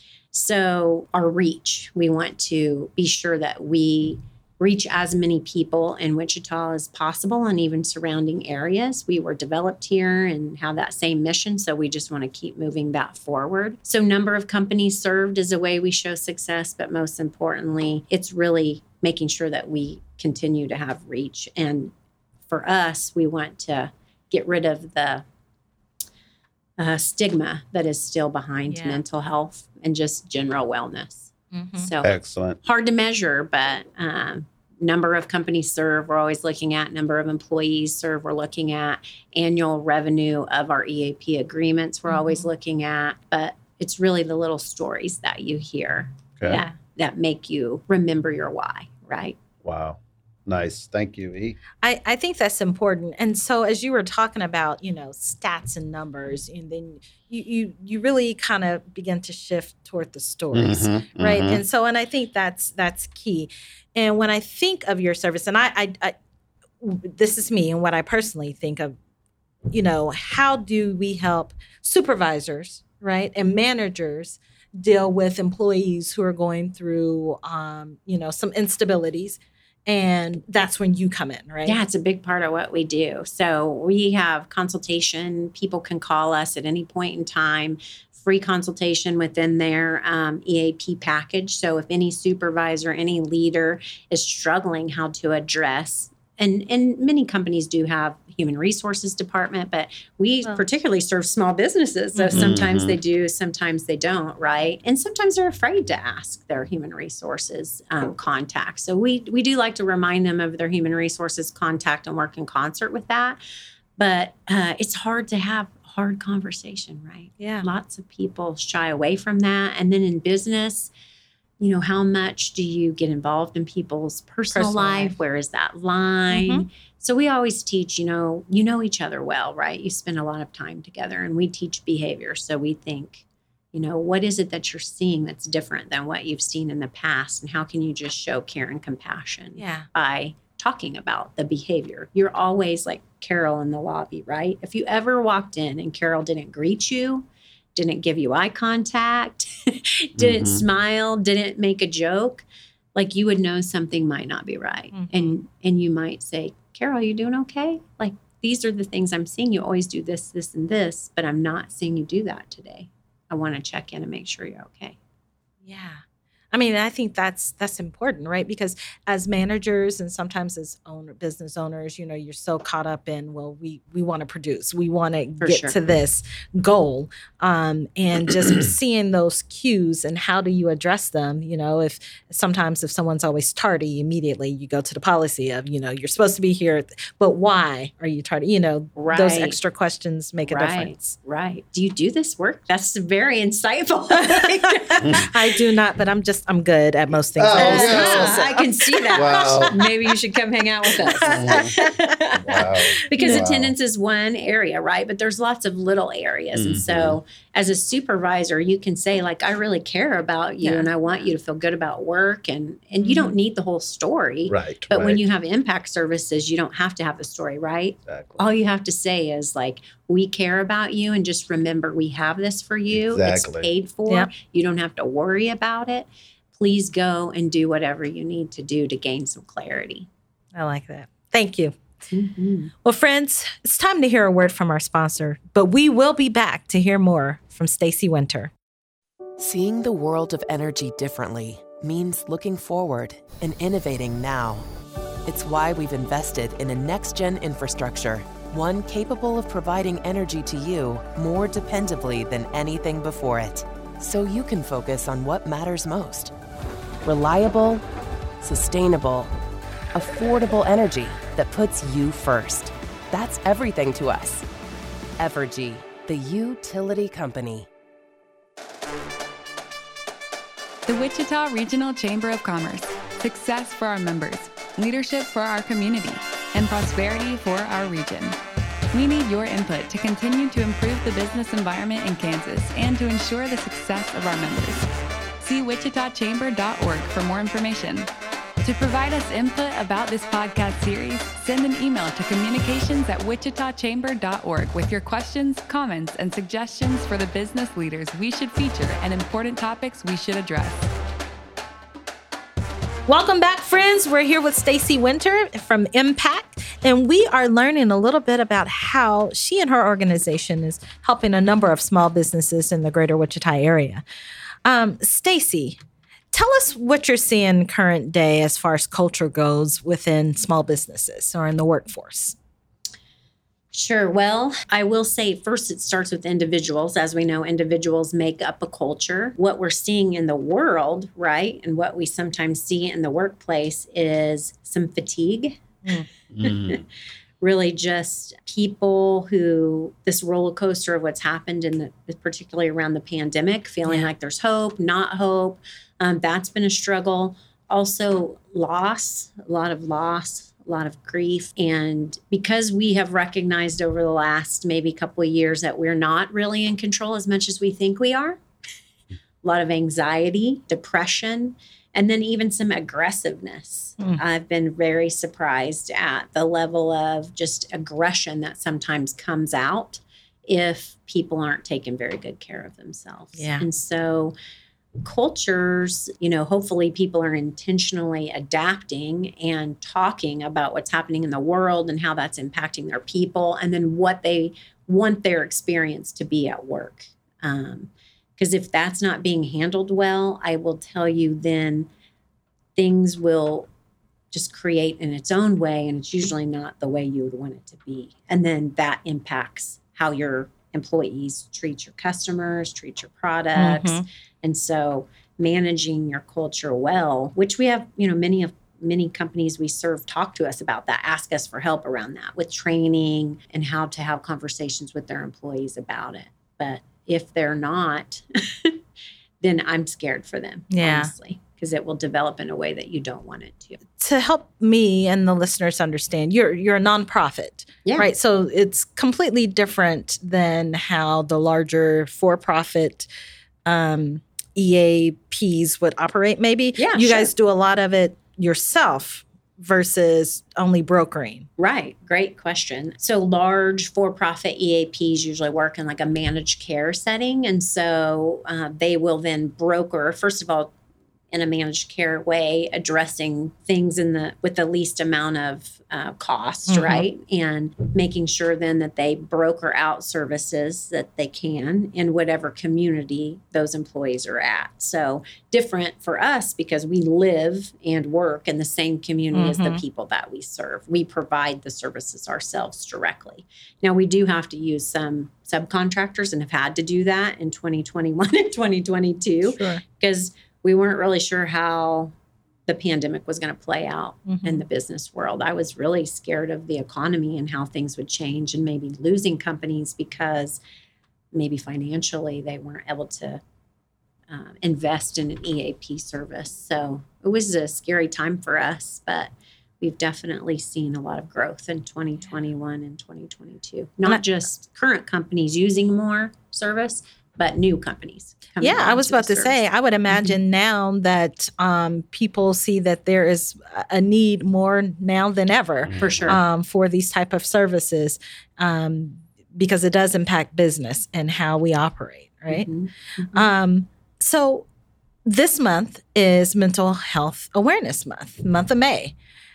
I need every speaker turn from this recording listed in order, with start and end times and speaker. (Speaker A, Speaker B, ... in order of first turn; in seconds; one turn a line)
Speaker A: 0.3-21.9
Speaker A: 22.5-25.2
Speaker A: 26.8-49.4
Speaker B: 28.7-29.0
Speaker B: 31.5-31.9
Speaker C: 32.0-32.6
Speaker B: 42.1-42.5
Speaker C: 46.4-46.6
Speaker C: 49.6-51.6
Speaker B: 51.8-66.1
Speaker C: 60.5-61.6
Speaker B: 66.8-69.0
Speaker B: 69.7-81.8
Speaker A: 81.6-113.4
Speaker B: 102.1-102.5
Speaker C: 102.3-103.0
Speaker A: 114.0-120.9
Speaker B: 117.4-117.7
Speaker A: 121.6-165.0
Speaker B: 124.5-125.2
Speaker B: 126.3-126.6
Speaker B: 139.6-139.9
Speaker C: 150.2-150.6
Speaker B: 154.9-155.4
Speaker B: 165.6-191.2
Speaker A: 175.4-175.8
Speaker A: 188.9-189.6
Speaker A: 190.4-195.3
Speaker B: 194.3-199.7
Speaker C: 197.4-199.8
Speaker A: 197.6-230.1
Speaker B: 200.9-202.0
Speaker C: 201.2-201.7
Speaker C: 202.4-203.7
Speaker B: 203.1-203.5
Speaker C: 206.5-207.2
Speaker B: 210.6-210.9
Speaker B: 213.0-213.4
Speaker C: 214.5-215.2
Speaker C: 218.1-218.4
Speaker C: 222.9-223.7
Speaker B: 230.6-231.8
Speaker A: 232.1-232.7
Speaker B: 232.8-238.5
Speaker D: 239.4-244.7
Speaker D: 245.2-256.3
Speaker D: 257.0-257.9
Speaker D: 258.4-259.3
Speaker D: 259.9-264.4
Speaker D: 265.2-267.7
Speaker E: 270.9-278.4
Speaker E: 278.9-284.9
Speaker E: 285.4-288.1
Speaker E: 288.6-300.9
Speaker B: 303.1-314.0
Speaker B: 314.6-315.8
Speaker B: 316.3-322.4
Speaker A: 323.7-335.6
Speaker C: 336.3-336.8
Speaker A: 336.4-336.8
Speaker A: 337.4-358.4
Speaker B: 343.9-344.1
Speaker A: 359.4-374.4
Speaker B: 373.4-373.7
Speaker A: 375.0-391.9
Speaker A: 392.8-393.7
Speaker A: 394.3-418.8
Speaker B: 403.6-404.1
Speaker A: 419.4-423.8
Speaker B: 420.7-421.1
Speaker B: 424.0-433.1
Speaker A: 427.9-428.1
Speaker B: 433.6-441.5
Speaker A: 436.8-437.3
Speaker A: 441.6-450.7
Speaker A: 451.3-482.1
Speaker B: 456.7-457.1
Speaker B: 469.3-469.8
Speaker B: 479.4-479.8
Speaker A: 482.7-490.6
Speaker B: 484.3-484.6
Speaker A: 491.3-493.4
Speaker A: 494.3-509.6
Speaker B: 508.6-522.7
Speaker C: 515.8-516.4
Speaker A: 516.0-516.4
Speaker A: 522.5-523.4
Speaker B: 523.3-524.6
Speaker B: 525.2-529.1